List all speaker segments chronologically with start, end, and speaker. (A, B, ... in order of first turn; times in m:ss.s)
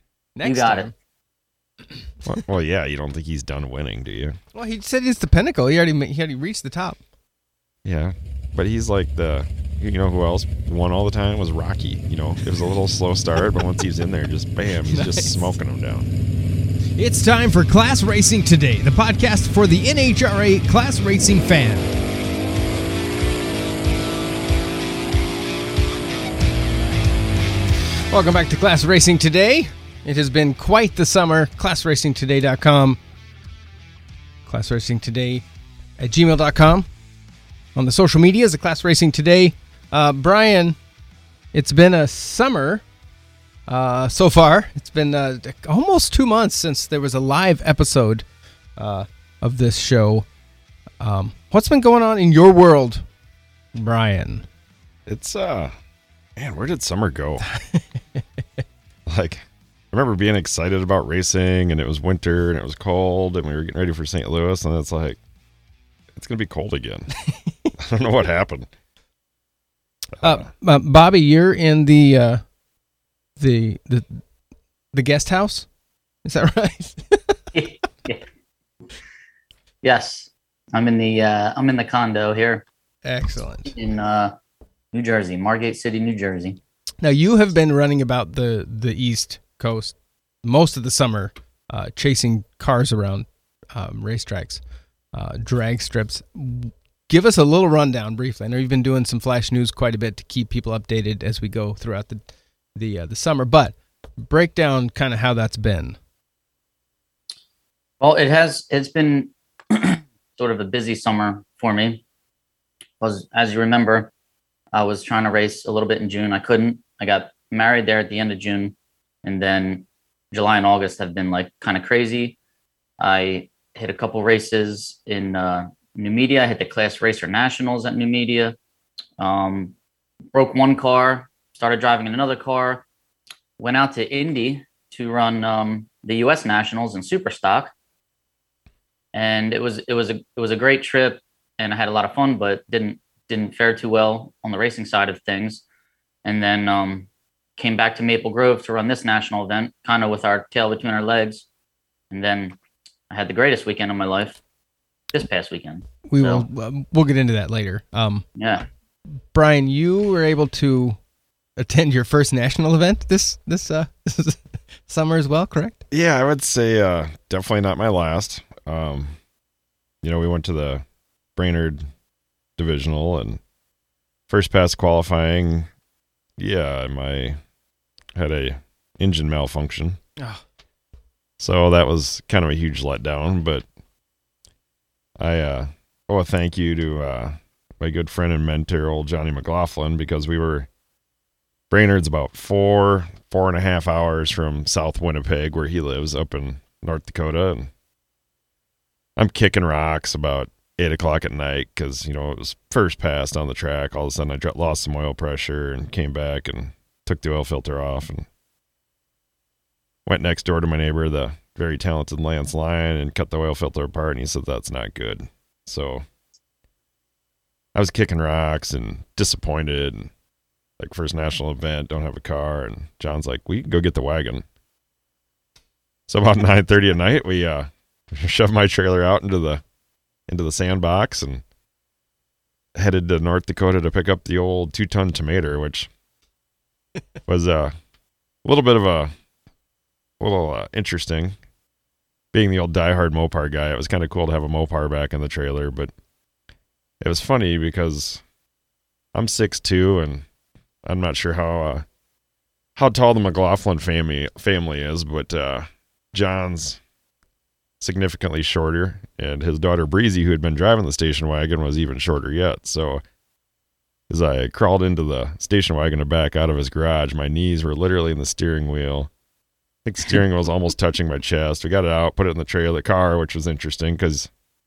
0:00.4-0:00.9 A
0:00.4-0:00.9 B
0:02.2-0:04.4 C
0:04.5-0:07.0 A
0:07.8-0:16.1 C
0:14.9-0:15.4 A
0:17.0-0:22.0 A
0:28.1-0:33.0 A
0:34.4-0:35.4 A
0:36.0-0:36.9 A
0:37.7-0:40.8 A
0:41.5-0:42.8 A
0:43.7-0:48.2 A
0:48.8-0:50.2 A
0:51.0-0:53.0 A
0:53.7-0:54.4 A
0:55.1-0:55.7 C
0:56.4-0:57.5 C
0:57.5-0:58.2 A
0:59.1-1:05.2 C
1:06.1-1:07.1 C
1:07.3-1:07.7 A
1:07.8-1:08.7 C
1:10.2-1:10.5 C
1:10.2-1:12.4 A
1:13.4-1:14.2 A
1:14.9-1:15.7 A
1:16.2-1:17.4 A
1:17.5-1:18.2 B
1:19.8-1:22.6 B
1:23.0-1:23.7 A
1:23.7-1:24.3 B
1:24.9-1:26.6 B
1:27.0-1:34.6 A
1:35.1-1:46.0 A
1:48.0-1:52.0 B
1:53.0-1:54.1 B
1:54.7-2:02.4 B
2:03.0-2:08.6 B
2:09.2-2:09.7 B
2:10.3-2:12.8 B
2:13.6-2:17.7 B
2:19.1-2:25.6 B
2:26.2-2:31.5 B
2:32.1-2:32.6 B
2:33.1-2:34.4 B
2:35.1-2:36.4 B
2:36.0-2:38.2 A
2:38.4-2:38.7 B
2:39.1-2:41.0 A
2:41.6-2:45.8 A
2:45.9-2:49.2 C
2:50.0-2:50.8 C
2:51.4-2:51.8 C
2:52.6-2:53.4 C
2:54.3-2:55.7 C
2:56.4-2:57.4 C
2:58.1-3:00.0 C
3:00.2-3:00.4 A
3:01.4-3:03.6 C
3:05.2-3:10.7 C
3:11.7-3:17.7 C
3:19.2-3:28.3 C
3:30.0-3:36.0 C
3:37.7-3:40.1 C
3:40.8-3:44.4 C
3:46.1-3:49.6 C
3:50.3-3:51.4 C
3:52.8-3:55.9 C
3:57.2-3:57.7 C
3:58.4-3:59.1 C
4:00.2-4:01.4 C
4:02.3-4:05.9 C
4:07.0-4:08.2 C
4:09.1-4:10.2 C
4:10.8-4:11.8 C
4:12.8-4:16.8 C
4:17.8-4:23.0 C
4:24.1-4:29.1 C
4:29.8-4:34.3 C